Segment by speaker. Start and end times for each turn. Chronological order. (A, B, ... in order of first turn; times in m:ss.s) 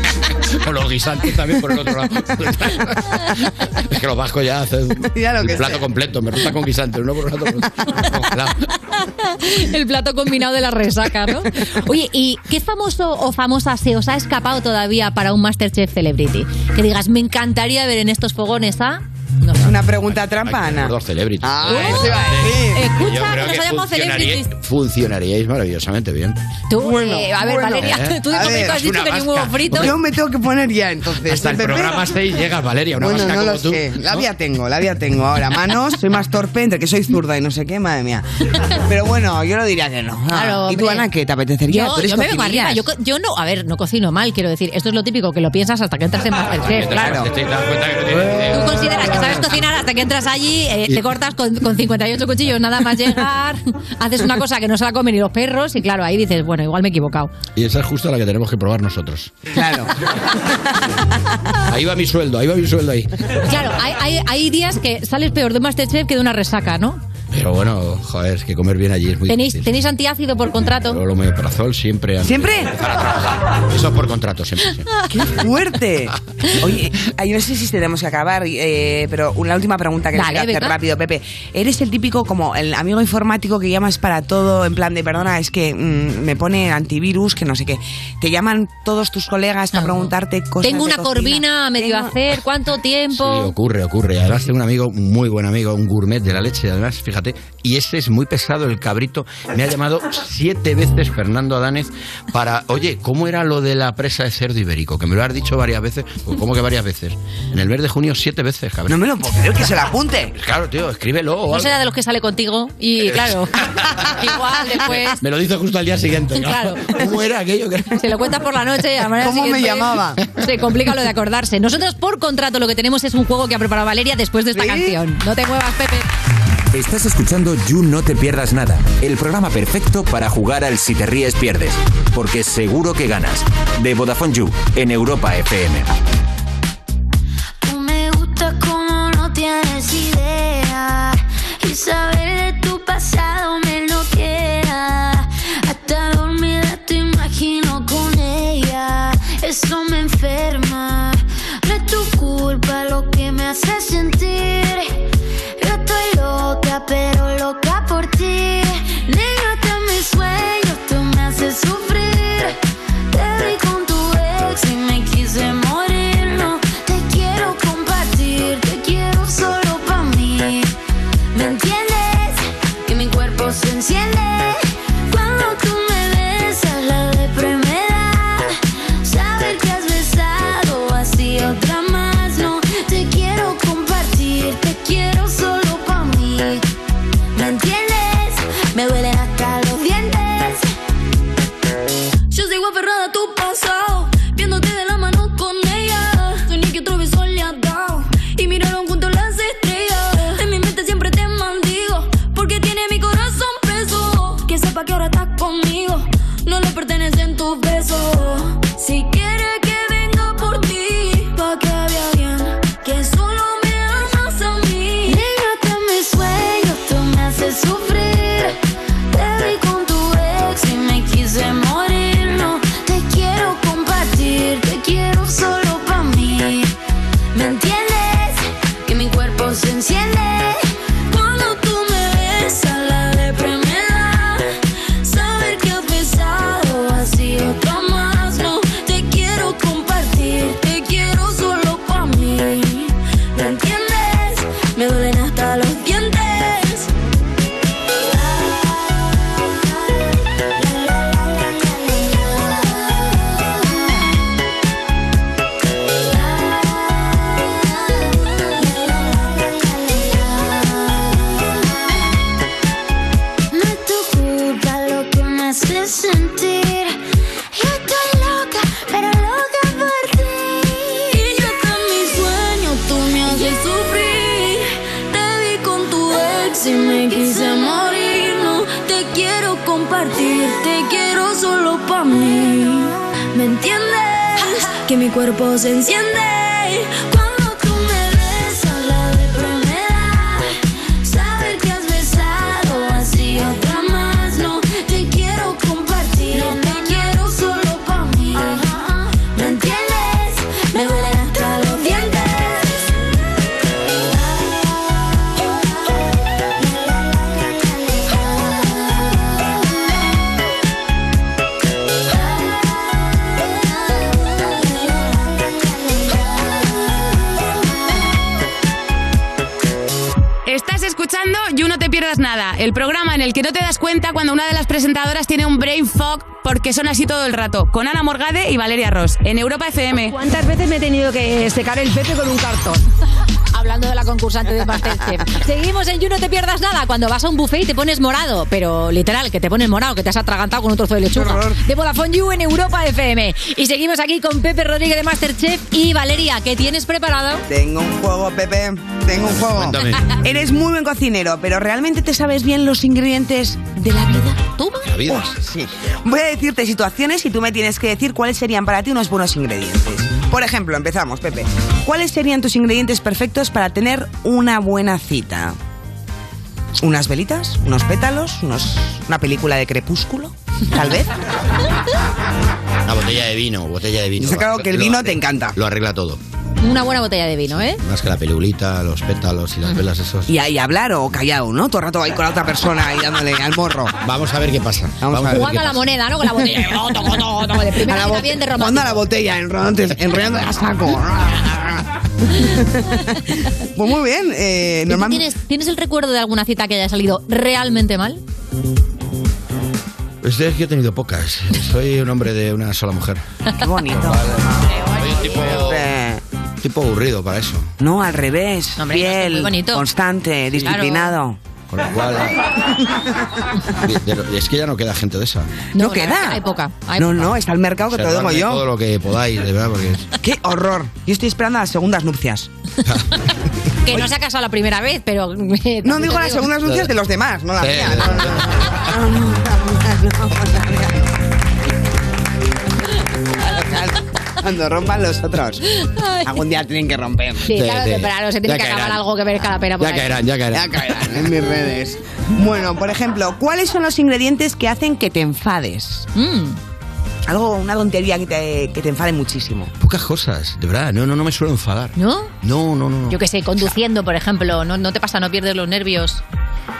0:00.5-0:08.6 A
0:05.1-0:05.9 B
0:09.2-0:19.7 C
0:19.6-0:22.8 B
0:20.1-0:26.4 A
0:21.6-0:24.5 C
0:26.7-0:29.9 C
0:26.8-0:28.8 B
0:27.8-0:29.9 A
0:29.7-0:32.1 B
0:31.2-0:34.2 A
0:33.0-0:42.8 B
0:40.3-0:41.1 C
0:41.7-0:47.3 C
0:46.6-0:49.4 A
0:46.8-0:47.3 B
0:48.5-0:57.3 C
0:57.6-0:59.3 A
0:59.5-0:59.9 B
1:01.7-1:03.1 A
1:03.4-1:07.0 C
1:07.3-1:09.7 A
1:09.3-1:11.0 C
1:10.8-1:14.8 A
1:12.2-1:12.7 B
1:15.1-1:32.2 B
1:20.1-1:20.7 C
1:29.7-1:30.1 C
1:30.6-1:33.5 C
1:33.1-1:49.0 A
1:48.9-1:50.3 B
1:50.3-1:51.8 A
1:51.5-1:55.2 C
1:53.1-1:53.4 A
1:55.1-1:57.9 A
1:56.4-1:56.9 C
1:57.9-2:06.1 C
1:59.2-2:00.2 B
2:04.5-2:05.0 B
2:06.7-2:15.8 D
2:17.6-2:35.0 E
2:35.6-2:42.6 E
2:43.1-2:50.7 E
2:51.3-3:06.6 E
3:07.3-3:10.7 E
3:12.3-3:38.6 E
3:39.1-3:46.7 E
3:47.3-4:06.9 E
4:08.0-4:09.1 E
4:10.5-4:13.9 E
4:16.1-4:21.5 E
4:23.5-4:27.0 E
4:27.5-5:03.0 E
5:04.1-5:04.6 E
5:06.6-5:09.0 E
5:14.4-5:16.4 E
5:20.4-5:30.1 F
5:30.1-5:32.8 G
5:33.5-5:47.4 C
5:41.1-5:41.6 B
5:47.5-5:54.4 B
5:49.2-5:50.0 A
5:54.6-5:54.9 C
5:54.8-5:55.3 A
5:55.0-6:05.6 B
6:06.8-6:11.2 B
6:12.8-6:16.2 A
6:14.2-6:15.6 B
6:16.6-6:17.8 C
6:17.7-6:20.3 A
6:20.3-6:24.0 B
6:24.0-6:25.8 A
6:25.0-6:25.6 B
6:25.3-6:29.0 C
6:27.8-6:35.2 B
6:34.9-6:38.2 C
6:40.2-6:43.2 A
6:43.6-6:46.2 B
6:44.9-6:45.9 A
6:46.6-6:47.7 A
6:47.8-6:51.4 B
6:48.8-6:49.8 C
6:50.6-6:51.1 C
6:51.7-6:52.4 A
6:53.8-6:55.5 A
6:55.7-6:56.4 B
6:55.7-6:57.3 C
6:57.0-6:58.6 B
6:57.9-7:00.1 A
7:00.2-7:02.5 B
7:03.8-7:06.5 C
7:05.8-7:11.1 B
7:07.6-7:08.4 A
7:13.4-7:15.6 B
7:15.8-7:16.3 C
7:16.2-7:17.5 B
7:17.4-7:20.1 C
7:17.5-7:19.0 A
7:19.8-7:21.2 A
7:20.5-7:26.1 B
7:26.1-7:26.6 C
7:27.2-7:29.7 B
7:29.8-7:33.7 A
7:32.0-7:32.3 C
7:33.1-7:36.2 C